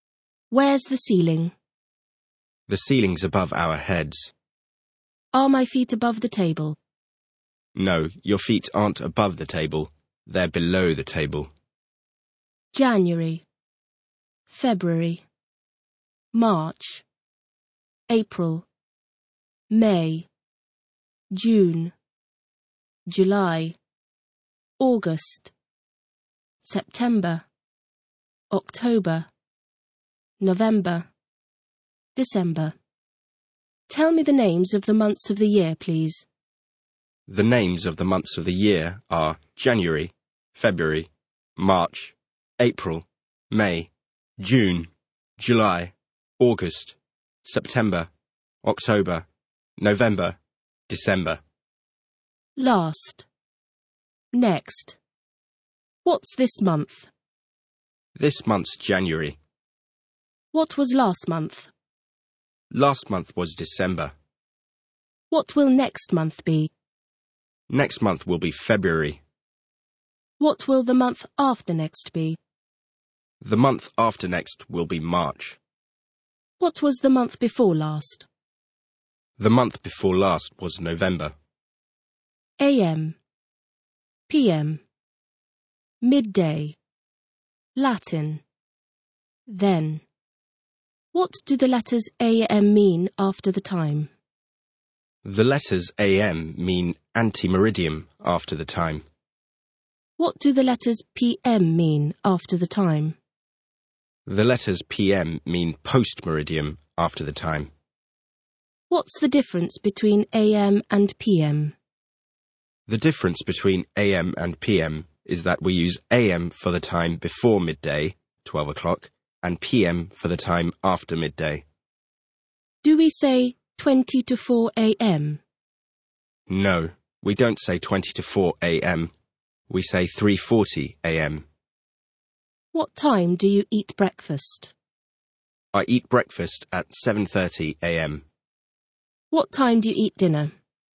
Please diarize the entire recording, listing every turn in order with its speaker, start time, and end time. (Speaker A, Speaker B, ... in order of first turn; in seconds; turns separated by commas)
Speaker A: 0.5-1.5, Speaker B: 2.7-4.3, Speaker A: 5.3-6.8, Speaker B: 7.8-11.5, Speaker A: 12.7-13.4, Speaker A: 14.5-15.2, Speaker A: 16.3-17.0, Speaker A: 18.1-18.7, Speaker A: 19.7-20.3, Speaker A: 21.3-21.9, Speaker A: 23.1-23.8, Speaker A: 24.8-25.5, Speaker A: 26.6-27.5, Speaker A: 28.5-29.3, Speaker A: 30.4-31.1, Speaker A: 32.1-32.7, Speaker A: 33.9-36.2, Speaker B: 37.3-48.1, Speaker B: 48.6-49.3, Speaker B: 49.8-50.4, Speaker B: 50.9-51.4, Speaker A: 52.6-53.2, Speaker A: 54.3-55.0, Speaker A: 56.0-57.1, Speaker B: 58.1-59.4, Speaker A: 60.5-61.7, Speaker B: 62.7-64.1, Speaker A: 65.3-66.7, Speaker B: 67.7-69.2, Speaker A: 70.4-72.4, Speaker B: 73.4-75.6, Speaker A: 76.6-78.3, Speaker B: 79.4-81.3, Speaker A: 82.6-83.2, Speaker A: 84.3-84.8, Speaker A: 86.0-86.8, Speaker A: 87.8-88.4, Speaker A: 89.5-90.0, Speaker A: 91.1-94.1, Speaker B: 95.2-99.0, Speaker A: 100.2-103.2, Speaker B: 104.2-107.7, Speaker A: 108.9-111.7, Speaker B: 112.9-121.6, Speaker A: 122.8-125.4, Speaker B: 126.5-129.1, Speaker B: 129.7-131.4, Speaker A: 132.7-134.7, Speaker B: 135.7-138.2, Speaker A: 139.3-140.5